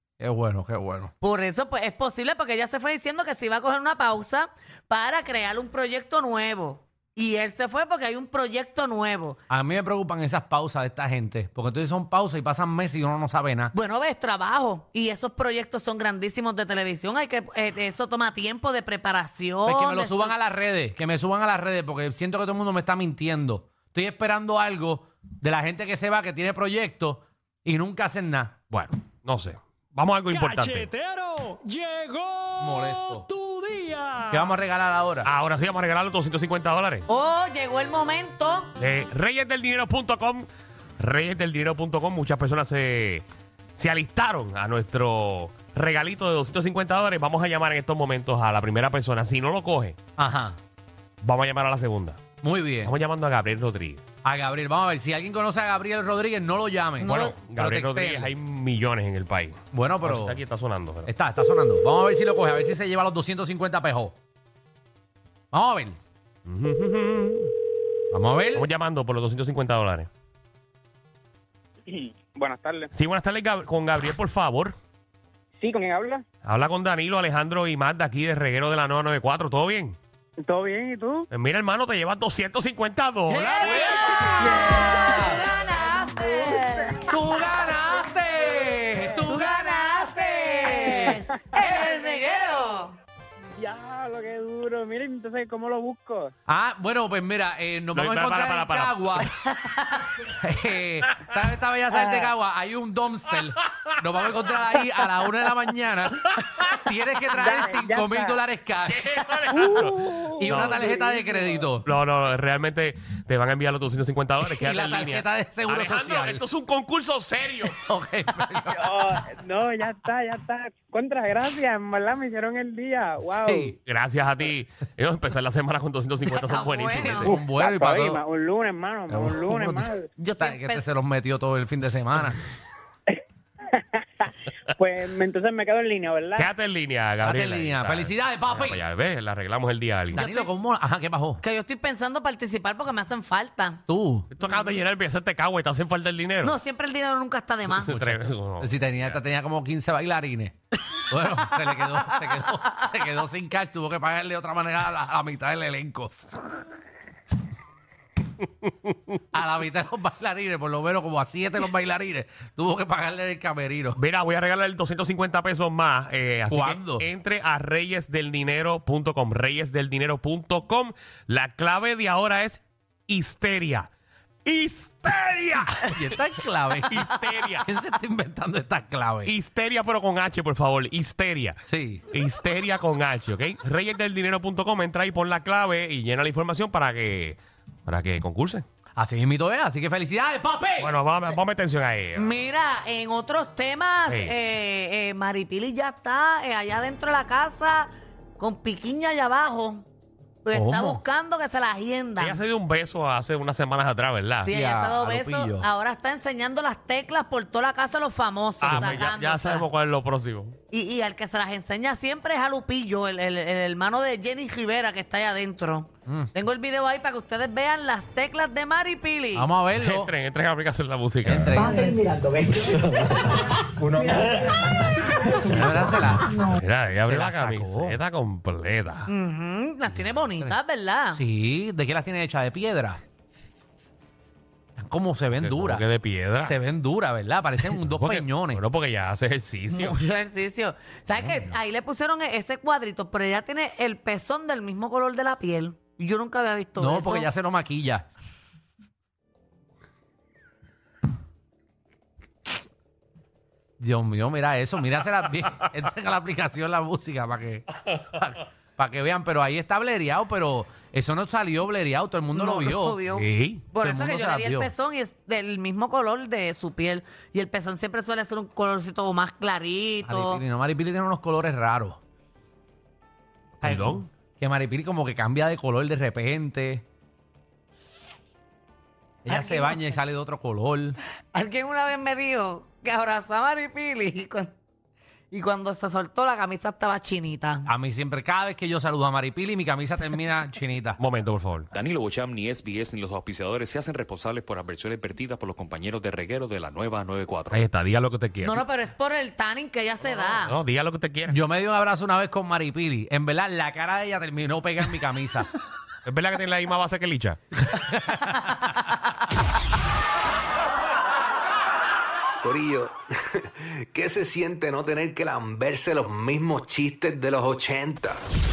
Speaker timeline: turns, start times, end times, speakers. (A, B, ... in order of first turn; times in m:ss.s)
0:00.2-0:01.1 A
0:01.2-0:09.4 B
0:09.5-0:13.7 A
0:13.7-0:20.3 B
0:19.7-0:28.6 A
0:28.7-0:30.9 C
0:30.3-0:34.5 D
0:32.6-0:33.3 A
0:34.3-0:35.3 A
0:35.2-0:37.0 C
0:37.1-0:38.7 B
0:38.8-0:40.5 C
0:41.0-0:43.2 C
0:43.8-0:50.0 C
0:50.2-0:50.6 A
0:51.2-0:52.2 C
0:52.4-0:52.9 A
0:52.8-0:54.0 C
0:54.2-0:58.3 A
0:57.0-1:01.1 C
0:57.0-0:57.3 B
0:59.7-1:00.4 A
1:01.0-1:04.2 A
1:05.5-1:06.0 A
1:06.5-1:07.5 C
1:08.1-1:08.7 A
1:08.5-1:10.1 C
1:12.2-1:12.9 E
1:12.9-1:14.8 C
1:15.6-1:16.2 E
1:16.4-1:20.0 C
1:20.4-1:21.3 E
1:21.3-1:24.3 C
1:23.3-1:27.0 B
1:23.9-1:25.4 A
1:26.2-1:26.6 E
1:27.0-1:31.2 A
1:29.2-1:33.0 B
1:31.5-1:32.1 E
1:33.6-1:36.3 E
1:36.5-1:39.3 A
1:37.9-1:39.2 C
1:39.2-1:40.2 B
1:40.2-1:49.2 A
1:47.3-1:48.4 E
1:48.9-1:50.9 C
1:49.6-1:50.0 E
1:49.8-1:51.8 A
1:50.9-1:51.5 E
1:51.8-1:57.8 C
1:54.4-1:56.4 A
1:57.8-1:58.9 A
1:58.8-2:03.7 E
2:03.5-2:03.8 A
2:03.8-2:07.3 C
2:06.3-2:07.4 B
2:07.0-2:08.2 A
2:07.4-2:10.1 E
2:09.1-2:12.4 A
2:10.2-2:10.8 B
2:14.8-2:16.5 E
2:16.4-2:20.2 C
2:17.2-2:18.8 A
2:20.1-2:20.5 B
2:20.1-2:21.4 A
2:21.4-2:23.8 B
2:23.9-2:24.3 A
2:24.3-2:26.6 C
2:24.4-2:24.8 B
2:26.4-2:27.9 B
2:27.8-2:29.2 C
2:27.8-2:36.1 A
2:39.3-2:44.0 A
2:44.0-2:53.9 C
2:46.5-2:47.1 A
2:54.4-2:56.2 C
2:55.8-2:59.3 A
2:56.9-2:57.7 C
2:59.2-3:01.6 C
3:01.6-3:02.0 A
3:02.1-3:08.6 C
3:09.0-3:10.9 A
3:10.8-3:12.4 C
3:12.2-3:19.9 B
3:14.1-3:14.4 C
3:20.4-3:22.4 B
3:20.5-3:21.0 A
3:22.2-3:24.5 C
3:24.4-3:29.6 B
3:24.5-3:25.7 A
3:28.6-3:30.6 C
3:28.7-3:29.1 A
3:30.7-3:39.5 B
3:39.3-3:40.1 A
3:39.8-3:41.8 C
3:41.2-3:42.0 A
3:45.4-3:46.4 A
3:45.5-3:49.1 C
3:47.0-3:48.0 A
3:49.1-3:51.2 B
3:49.9-3:50.5 A
3:51.1-3:53.0 A
3:54.8-3:55.9 A
3:55.4-3:56.6 C
3:56.4-3:58.6 A
3:57.8-4:00.0 C
3:59.7-4:07.3 B
4:06.8-4:08.1 A
4:13.8-4:23.0 A
4:22.3-4:30.4 B
4:23.1-4:23.7 C
4:23.8-4:24.7 A
4:30.0-4:32.0 A
4:33.6-4:34.0 C
4:33.6-4:36.8 A
4:39.2-4:41.0 A
4:39.3-4:39.9 B
4:41.3-4:44.6 B
4:45.3-4:47.7 B
4:47.6-4:51.0 A
4:51.0-4:51.7 C
4:51.8-4:57.6 F
4:57.5-4:58.6 C
4:58.4-5:00.6 B
5:00.4-5:01.4 C
5:01.3-5:05.5 A
5:06.0-5:07.4 C
5:07.7-5:08.9 A
5:12.4-5:12.9 G
5:13.6-5:18.2 G